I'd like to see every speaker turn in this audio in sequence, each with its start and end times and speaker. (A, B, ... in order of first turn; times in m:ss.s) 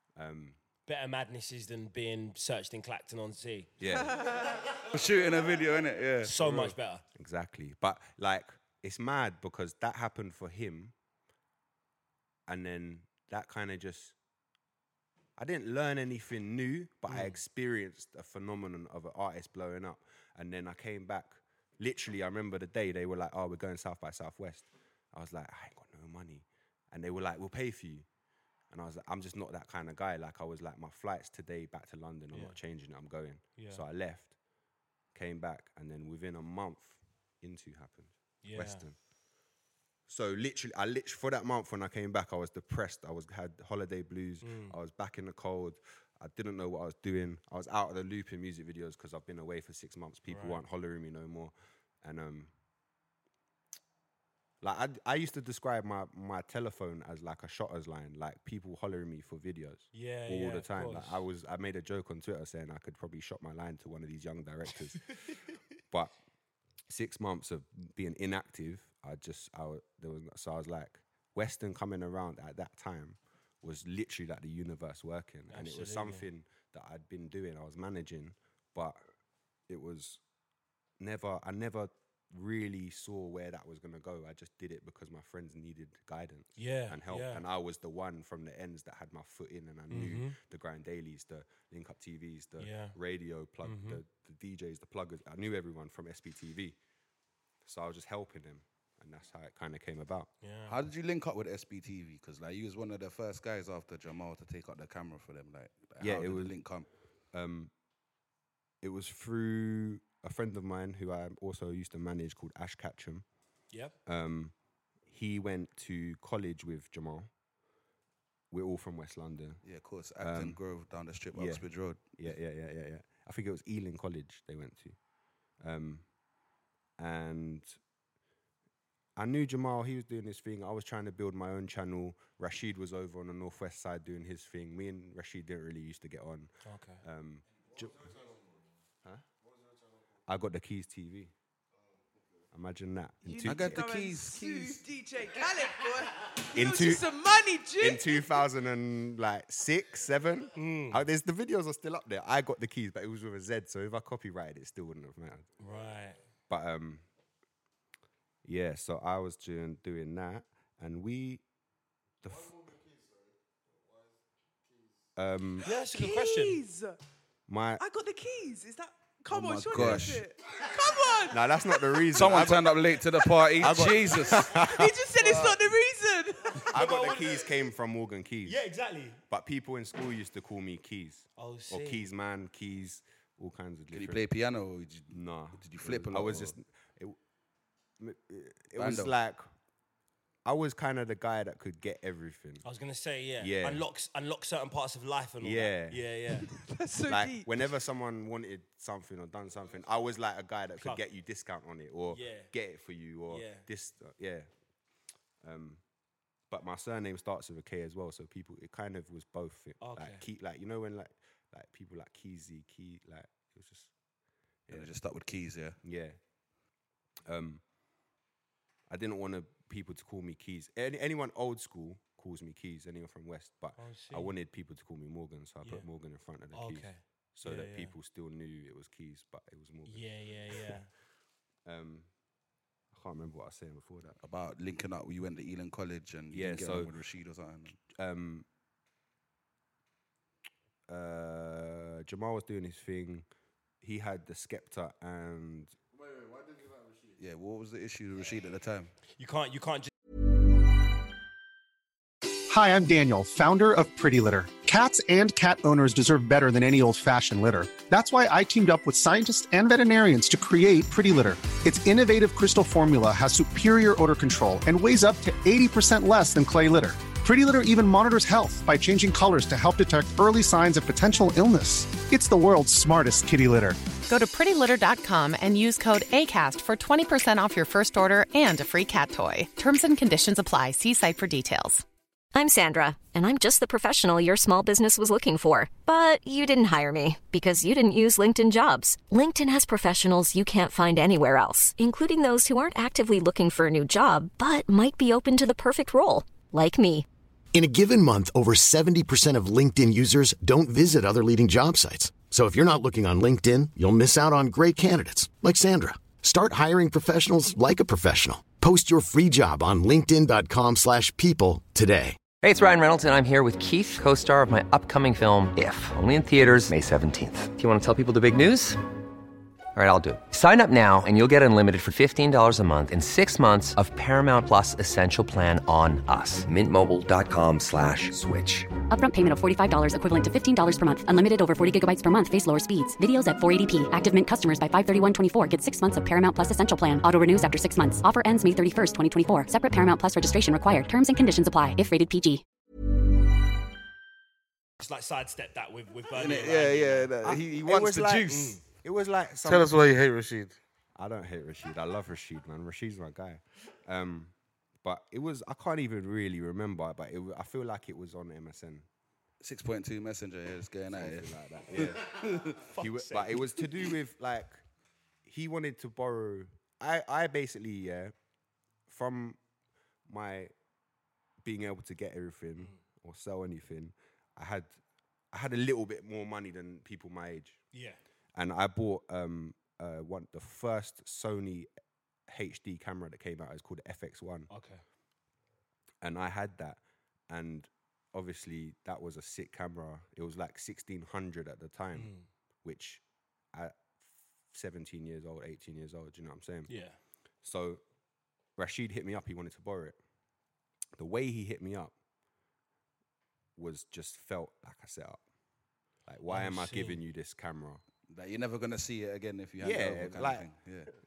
0:00.2-0:00.6 A
0:00.8-0:03.7 B
0:03.8-0:04.2 A
0:03.9-0:04.8 C
0:04.8-0:06.7 D
0:06.2-0:07.0 B
0:07.1-0:10.9 A
0:12.5-0:14.1 A
0:15.4-0:28.1 A
0:17.1-0:17.4 B
0:28.7-0:34.4 A
0:32.3-0:32.6 B
0:33.6-0:33.8 B
0:35.1-0:39.0 A
0:38.4-0:38.8 B
0:40.1-0:52.5 A
0:44.4-0:44.7 B
0:50.3-0:50.6 B
0:54.6-1:05.4 A
0:59.9-1:01.2 B
1:06.9-1:19.0 A
1:15.5-1:16.3 B
1:19.7-1:20.2 A
1:21.0-1:36.8 A
1:26.6-1:27.4 B
1:29.9-1:30.4 B
1:32.6-1:33.0 B
1:33.6-1:34.0 B
1:37.6-1:40.3 A
1:40.4-1:40.8 B
1:40.7-1:46.9 D
1:46.0-1:46.6 A
1:47.3-1:47.7 A
1:48.8-1:53.2 A
1:53.7-1:54.0 B
1:54.0-1:54.5 A
1:55.1-1:57.3 A
1:58.5-1:59.6 A
1:59.6-2:02.1 D
2:00.2-2:00.6 A
2:01.3-2:05.0 A
2:05.6-2:06.1 A
2:07.0-2:07.8 A
2:09.2-2:18.1 A
2:16.6-2:17.0 B
2:17.8-2:18.6 E
2:19.5-2:19.9 E
2:20.2-2:21.3 A
2:22.5-2:23.9 A
2:23.2-2:28.4 C
2:23.4-2:24.8 D
2:26.5-2:27.1 A
2:27.8-2:35.5 A
2:30.5-2:31.0 B
2:35.6-2:36.2 B
2:36.5-2:37.0 A
2:38.4-2:41.4 A
2:42.2-2:42.6 A
2:42.3-2:44.1 E
2:44.7-2:45.0 E
2:45.1-2:45.7 A
2:45.6-2:46.6 B
2:45.7-2:47.0 C
2:47.5-2:47.8 A
2:47.8-2:52.3 C
2:49.3-2:50.3 D
2:49.7-2:50.0 A
2:51.3-2:52.8 A
2:52.1-2:54.6 D
2:53.2-2:53.8 C
2:53.5-2:55.4 A
2:54.3-2:56.7 C
2:56.6-2:58.6 A
2:56.7-2:57.4 B
2:58.4-2:59.2 B
2:59.3-3:04.2 A
3:01.4-3:02.1 B
3:03.9-3:06.6 D
3:05.1-3:07.2 A
3:08.0-3:09.5 A
3:08.8-3:09.1 D
3:10.4-3:12.6 A
3:12.6-3:16.5 B
3:13.4-3:13.8 A
3:15.4-3:16.0 A
3:16.5-3:17.5 C
3:17.0-3:24.5 A
3:20.8-3:21.0 B
3:22.1-3:22.5 B
3:23.3-3:23.6 B
3:25.4-3:25.8 A
3:26.5-3:33.9 A
3:29.8-3:30.2 B
3:34.7-3:35.8 D
3:35.8-3:36.2 A
3:37.2-3:37.6 A
3:38.9-3:50.6 A
3:43.8-3:44.3 B
3:45.6-3:45.9 B
3:46.5-3:47.9 B
3:49.8-3:50.9 B
3:51.6-3:52.1 A
3:52.9-3:54.2 A
3:54.2-3:57.8 D
3:56.3-3:56.9 A
3:57.9-3:58.4 A
4:00.9-4:03.2 A
4:03.8-4:05.8 A
4:05.9-4:07.1 E
4:07.2-4:08.9 D
4:09.2-4:09.9 B
4:12.5-4:33.9 F
4:34.0-4:41.8 G
4:42.3-4:57.0 H
4:57.5-5:12.2 I
5:12.4-5:18.8 J
5:19.7-5:28.7 J
5:28.9-5:42.4 K
5:44.8-5:47.1 B
5:46.1-5:48.5 D
5:47.2-5:49.9 A
5:48.3-5:48.6 B
5:49.4-5:50.6 E
5:50.9-5:58.8 A
5:59.4-6:02.6 D
6:00.9-6:04.6 A
6:02.5-6:03.5 B
6:05.2-6:08.1 A
6:08.9-6:09.4 A
6:10.1-6:10.5 A
6:11.4-6:14.8 A
6:15.3-6:17.6 A
6:17.7-6:18.0 B
6:18.3-6:21.7 A
6:22.3-6:24.5 A
6:24.5-6:24.8 B
6:26.0-6:32.1 A
6:31.9-6:32.3 B
6:32.6-6:33.0 A
6:33.5-6:36.7 A
6:36.7-6:37.0 B
6:37.4-6:37.8 A
6:38.6-6:40.0 A
6:41.0-6:41.9 A
6:43.6-6:45.2 A
6:46.0-6:47.8 A
6:46.3-6:47.0 B
6:48.1-6:50.9 D
6:49.6-6:50.5 A